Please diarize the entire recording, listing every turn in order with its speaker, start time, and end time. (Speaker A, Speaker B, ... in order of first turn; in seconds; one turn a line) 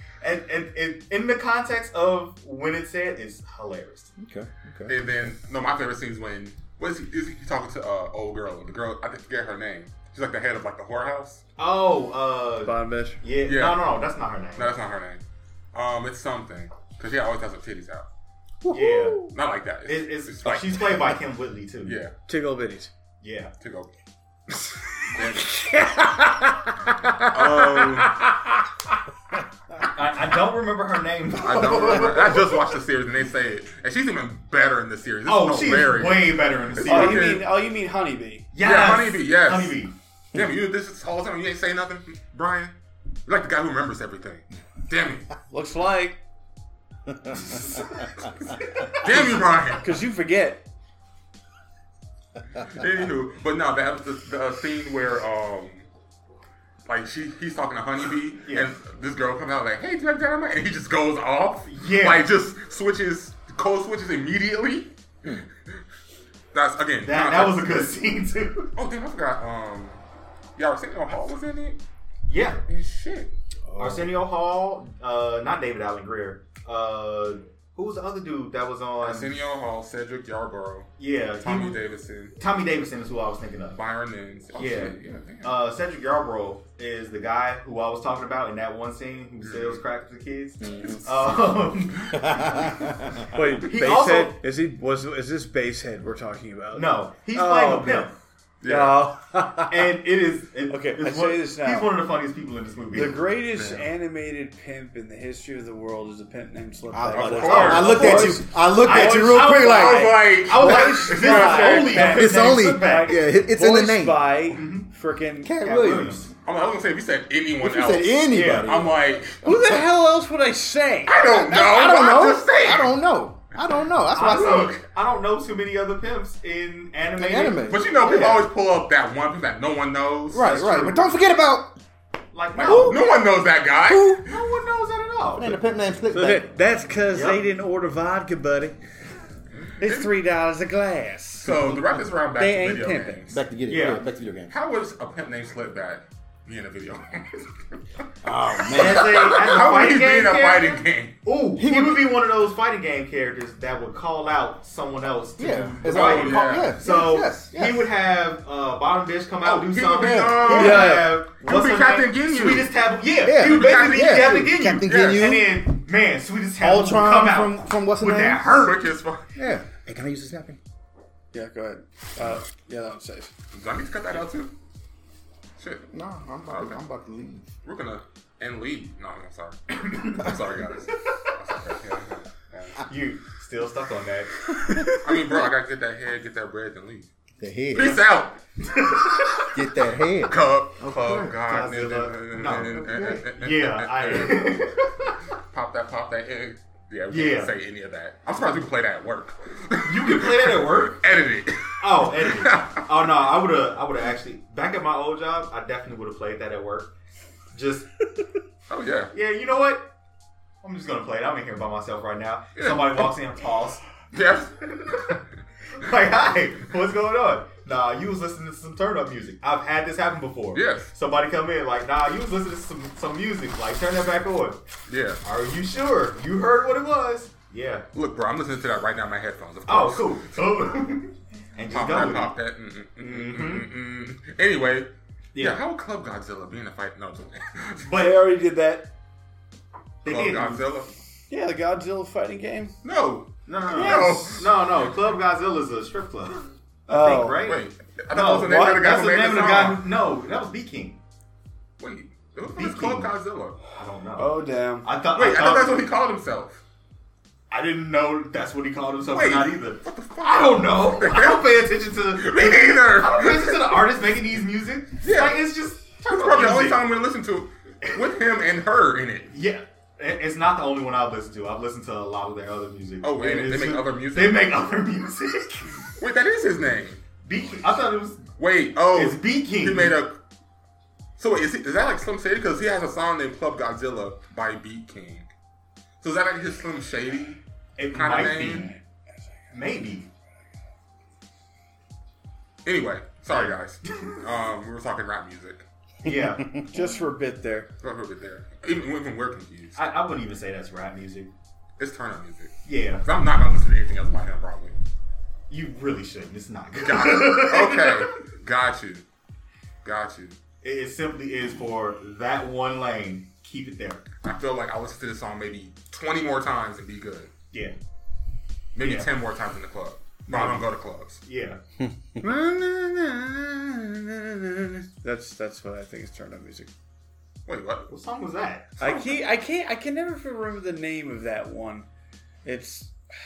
Speaker A: 0.2-4.1
Speaker B: 4.2-5.1
Speaker C: 4.9-11.4
Speaker A: 11.6-14.8
Speaker D: 12.6-13.2
Speaker C: 13.4-13.8
Speaker C: 14.6-15.2
Speaker C: 15.7-18.1
Speaker B: 18.6-19.3
Speaker A: 18.7-19.3
Speaker C: 19.3-21.2
Speaker A: 19.9-22.0
Speaker C: 21.8-22.1
Speaker D: 22.3-22.9
Speaker A: 23.2-23.5
Speaker C: 23.6-23.9
Speaker D: 24.7-28.6
Speaker C: 25.1-25.4
Speaker C: 27.3-28.1
Speaker A: 29.9-32.6
Speaker C: 31.3-37.5
Speaker A: 35.2-37.4
Speaker D: 36.8-38.5
Speaker A: 38.5-39.9
Speaker C: 38.6-39.8
Speaker C: 40.3-42.7
Speaker C: 43.2-45.3
Speaker D: 45.5-46.2
Speaker B: 47.1-47.6
Speaker C: 48.9-49.9
Speaker D: 49.8-50.6
Speaker C: 52.5-55.9
Speaker C: 56.9-65.8
Speaker A: 61.6-62.3
Speaker C: 66.5-67.9
Speaker A: 67.0-68.7
Speaker C: 68.8-70.0
Speaker C: 70.6-71.8
Speaker A: 72.3-72.6
Speaker C: 72.7-73.3
Speaker B: 73.7-74.1
Speaker A: 73.8-79.4
Speaker C: 79.0-82.3
Speaker A: 81.0-81.8
Speaker A: 82.4-83.8
Speaker C: 83.7-85.6
Speaker A: 84.5-92.9
Speaker C: 89.4-89.8
Speaker B: 90.6-91.0
Speaker C: 90.8-91.5
Speaker B: 92.2-93.3
Speaker D: 93.3-98.1
Speaker A: 93.6-94.4
Speaker A: 96.7-98.1
Speaker C: 98.6-99.0
Speaker D: 98.6-99.9
Speaker A: 99.7-103.2
Speaker D: 100.7-101.9
Speaker D: 102.9-115.5
Speaker C: 103.5-103.9
Speaker B: 106.9-110.2
Speaker C: 107.1-108.3
Speaker A: 107.3-113.2
Speaker C: 109.8-112.1
Speaker B: 112.0-114.3
Speaker A: 114.5-114.9
Speaker B: 115.4-116.3
Speaker A: 115.6-116.3
Speaker C: 116.4-119.4
Speaker B: 117.6-119.8
Speaker A: 118.3-118.9
Speaker D: 119.4-121.2
Speaker C: 121.0-123.0
Speaker B: 121.2-124.8
Speaker A: 124.1-128.5
Speaker C: 124.2-124.8
Speaker B: 127.2-127.9
Speaker C: 127.6-130.6
Speaker B: 130.3-131.7
Speaker A: 130.3-131.1
Speaker A: 132.3-133.2
Speaker C: 132.5-134.3
Speaker B: 132.6-133.0
Speaker B: 133.9-134.2
Speaker A: 134.2-135.6
Speaker B: 135.3-136.5
Speaker D: 136.1-138.8
Speaker A: 137.1-137.4
Speaker C: 139.6-140.1
Speaker D: 139.8-141.7
Speaker C: 141.4-143.4
Speaker D: 142.3-143.3
Speaker B: 143.3-144.5
Speaker A: 143.7-144.1
Speaker C: 144.5-148.0
Speaker B: 148.2-149.4
Speaker C: 148.6-151.2
Speaker A: 148.6-168.9
Speaker B: 151.6-152.2
Speaker B: 155.4-157.9
Speaker C: 155.8-156.8
Speaker C: 159.4-162.7
Speaker B: 160.0-160.9
Speaker D: 160.5-161.2
Speaker B: 163.2-165.6
Speaker C: 163.3-165.4
Speaker B: 166.6-168.4
Speaker C: 168.4-169.3
Speaker B: 169.3-170.6
Speaker D: 171.3-173.3
Speaker C: 173.5-174.5
Speaker C: 175.6-175.9
Speaker B: 175.9-177.5
Speaker C: 176.5-176.8
Speaker C: 177.6-182.8
Speaker A: 179.8-180.3
Speaker A: 182.9-184.5
Speaker C: 184.9-187.1
Speaker B: 187.4-188.0
Speaker C: 187.7-188.4
Speaker A: 187.8-188.1
Speaker A: 188.6-189.5
Speaker B: 189.5-191.3
Speaker C: 189.8-194.6
Speaker A: 191.4-195.2
Speaker B: 192.7-193.2
Speaker C: 195.5-203.1
Speaker A: 197.1-197.5
Speaker A: 199.8-201.0
Speaker A: 201.8-206.9
Speaker A: 207.5-208.0
Speaker C: 208.7-209.1
Speaker A: 209.1-209.9
Speaker A: 210.6-213.8
Speaker C: 212.6-213.1
Speaker C: 214.1-215.2
Speaker A: 214.8-215.2
Speaker A: 215.7-224.6
Speaker C: 220.5-220.9
Speaker C: 224.9-225.2
Speaker A: 225.2-227.8
Speaker C: 227.9-230.3
Speaker A: 229.7-232.3
Speaker C: 231.7-237.9
Speaker A: 233.0-233.7
Speaker A: 235.3-235.6
Speaker A: 237.8-238.2
Speaker D: 237.9-238.9
Speaker A: 240.0-240.6
Speaker C: 240.0-240.9
Speaker D: 241.3-242.7
Speaker C: 242.8-244.6
Speaker A: 243.5-251.0
Speaker D: 243.7-244.4
Speaker D: 246.9-247.4
Speaker C: 247.4-249.8
Speaker D: 248.3-248.8
Speaker C: 251.8-253.6
Speaker A: 252.5-253.1
Speaker A: 253.7-255.8
Speaker D: 254.2-254.9
Speaker C: 255.1-256.6
Speaker A: 257.5-266.8
Speaker C: 259.1-263.8
Speaker C: 265.0-265.4
Speaker C: 266.0-269.3
Speaker A: 269.3-275.9
Speaker C: 273.0-274.6
Speaker C: 276.0-277.0
Speaker A: 277.2-278.2
Speaker C: 278.4-280.2
Speaker A: 278.9-280.0
Speaker C: 281.2-285.3
Speaker C: 286.0-287.4
Speaker A: 287.8-288.7
Speaker C: 287.9-288.7
Speaker D: 288.5-288.8
Speaker A: 289.5-290.1
Speaker C: 292.6-295.6
Speaker A: 293.3-294.1
Speaker A: 296.0-296.6
Speaker B: 296.1-296.7
Speaker D: 296.7-297.7
Speaker C: 297.8-299.9
Speaker A: 299.7-301.3
Speaker C: 301.8-304.8
Speaker A: 302.6-303.0
Speaker A: 305.5-308.1
Speaker C: 306.8-309.0
Speaker C: 309.8-310.4
Speaker A: 310.6-314.1
Speaker C: 314.2-317.3
Speaker C: 318.7-321.2
Speaker A: 318.8-319.1
Speaker A: 320.3-320.7
Speaker A: 321.2-321.6
Speaker D: 322.2-326.7
Speaker C: 327.4-327.9
Speaker A: 327.9-328.7
Speaker D: 328.8-331.9
Speaker C: 328.8-329.1
Speaker D: 332.4-332.9